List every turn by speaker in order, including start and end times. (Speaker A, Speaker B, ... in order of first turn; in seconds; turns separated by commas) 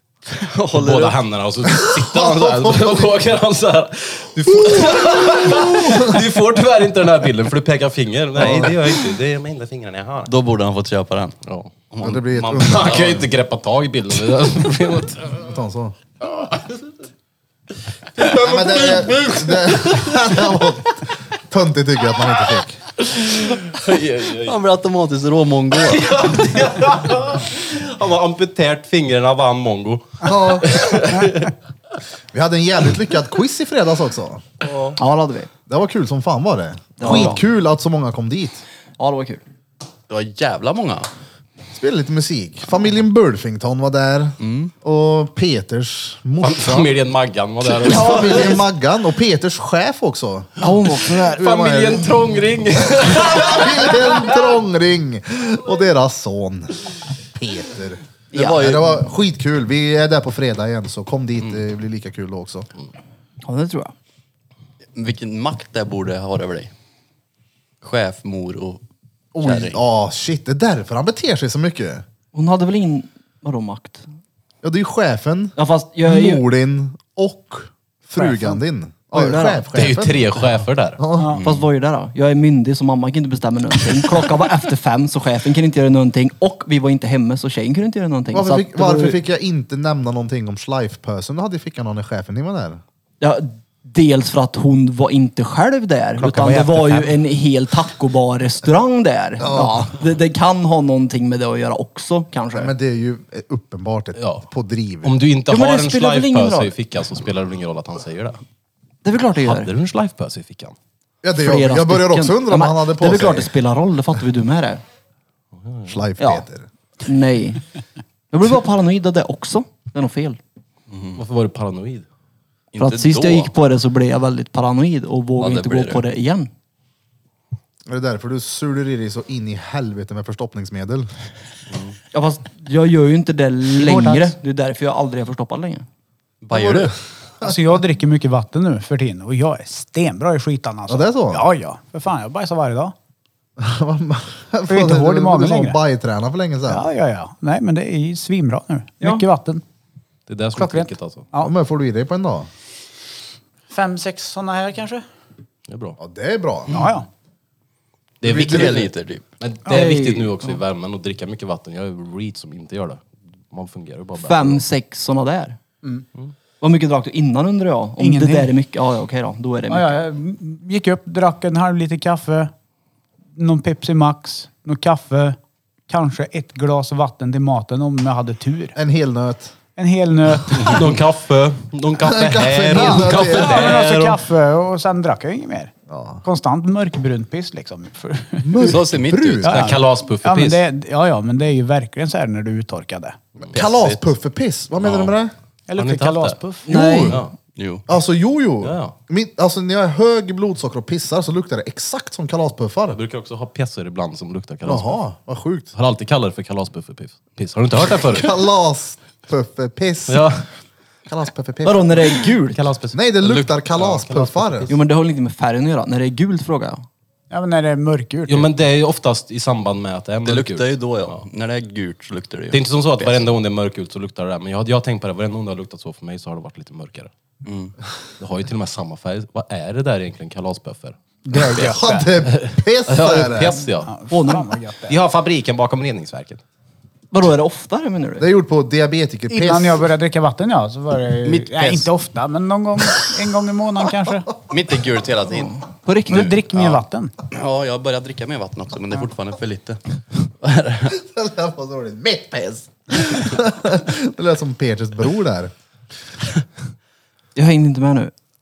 Speaker A: 0.3-1.2, Speaker B: 0.7-10.3, Speaker C: 1.6-3.1, Speaker C: 5.5-6.1, Speaker C: 8.4-8.8, Speaker A: 8.5-8.7, Speaker A: 10.2-11.3, Speaker B: 11.4-15.4, Speaker C: 12.0-13.3, Speaker C: 15.3-15.9, Speaker B: 18.2-20.1, Speaker C: 18.3-22.8, Speaker A: 23.6-26.1, Speaker B: 23.7-24.5, Speaker B: 25.7-31.5, Speaker C: 30.2-30.7, Speaker C: 32.3-34.4, Speaker A: 34.6-35.0, Speaker D: 35.0-35.5, Speaker C: 35.7-38.6, Speaker D: 37.0-37.4, Speaker D: 39.0-39.4, Speaker A: 40.1-41.1, Speaker C: 41.7-46.9, Speaker A: 44.4-44.7, Speaker B: 46.4-48.6, Speaker C: 47.6-52.1, Speaker D: 47.8-48.6, Speaker D: 50.6-51.6, Speaker B: 51.4-54.3, Speaker C: 52.8-62.7, Speaker D: 58.3-58.8, Speaker A: 58.4-58.8, Speaker D: 63.4-63.9, Speaker A: 64.9-66.7, Speaker A: 67.8-68.8, Speaker C: 69.3-72.0, Speaker A: 69.4-69.8, Speaker D: 72.3-74.0, Speaker C: 74.6-80.4, Speaker D: 75.5-76.4, Speaker D: 79.1-79.6, Speaker B: 79.7-81.0, Speaker C: 81.0-81.3, Speaker A: 81.3-81.7, Speaker D: 81.4-89.2, Speaker C: 88.3-92.8, Speaker D: 93.2-102.7, Speaker E: 96.2-97.2, Speaker C: 99.4-99.9, Speaker C: 102.5-105.2, Speaker B: 104.2-104.5, Speaker B: 105.0-108.4, Speaker D: 105.5-106.7, Speaker D: 109.0-109.7, Speaker B: 109.4-110.7, Speaker C: 111.2-113.5, Speaker D: 111.4-114.8, Speaker B: 115.6-116.0, Speaker C: 115.9-116.7, Speaker D: 116.2-116.4, Speaker D: 117.0-117.6, Speaker D: 118.3-120.4, Speaker A: 120.9-121.2, Speaker B: 121.2-122.0, Speaker A: 122.7-123.5, Speaker D: 122.8-126.5, Speaker A: 125.4-126.0, Speaker C: 127.9-131.1, Speaker D: 132.1-135.8, Speaker E: 133.8-134.3, Speaker A: 136.4-136.9, Speaker C: 136.5-137.7, Speaker E: 137.4-142.9, Speaker C: 140.9-141.4, Speaker C: 143.6-146.8, Speaker E: 144.7-145.8, Speaker E: 146.7-149.6, Speaker B: 150.3-151.3, Speaker E: 150.6-151.5, Speaker C: 151.4-152.5, Speaker E: 153.7-155.0, Speaker B: 155.7-156.0, Speaker C: 156.0-156.7, Speaker E: 156.7-157.1, Speaker B: 158.2-164.6, Speaker A: 158.2-159.2, Speaker C: 158.3-158.7, Speaker D: 159.7-160.5, Speaker D: 164.2-165.6, Speaker D: 166.6-170.0, Speaker E: 168.0-168.5, Speaker E: 169.7-172.5, Speaker E: 173.3-178.8, Speaker C: 178.7-179.5, Speaker E: 179.8-180.8, Speaker B: 180.5-184.2, Speaker C: 182.0-183.8, Speaker E: 182.7-188.7, Speaker C: 185.9-186.2, Speaker C: 188.4-189.6, Speaker A: 188.5-189.8, Speaker E: 189.4-193.2, Speaker B: 189.5-190.6, Speaker C: 193.5-195.3, Speaker A: 193.5-194.1, Speaker E: 195.7-196.8, Speaker B: 195.8-196.4, Speaker C: 196.7-197.2, Speaker D: 196.7-197.2, Speaker B: 197.0-197.3, Speaker A: 197.5-197.8, Speaker C: 197.9-203.0, Speaker B: 198.6-198.9, Speaker B: 202.9-205.0, Speaker C: 204.6-205.7, Speaker B: 205.7-208.4, Speaker C: 207.9-210.3, Speaker B: 210.1-210.4, Speaker C: 211.1-212.0, Speaker D: 211.6-212.6, Speaker B: 212.5-214.8, Speaker C: 212.9-214.7, Speaker D: 214.7-216.8, Speaker E: 217.3-218.5, Speaker B: 218.3-221.2, Speaker A: 220.2-223.2, Speaker B: 222.5-227.1, Speaker A: 227.4-227.7, Speaker B: 228.2-230.9, Speaker E: 231.2-232.1, Speaker C: 231.6-233.6, Speaker B: 232.2-233.9, Speaker E: 233.8-234.9, Speaker D: 234.1-234.5, Speaker B: 234.9-236.4, Speaker D: 237.1-238.3, Speaker C: 238.2-239.9, Speaker E: 239.3-244.3, Speaker A: 241.2-241.9, Speaker A: 244.5-245.5, Speaker D: 245.4-246.3, Speaker E: 246.1-247.1, Speaker A: 246.3-250.9, Speaker C: 250.9-255.5, Speaker D: 257.3-258.1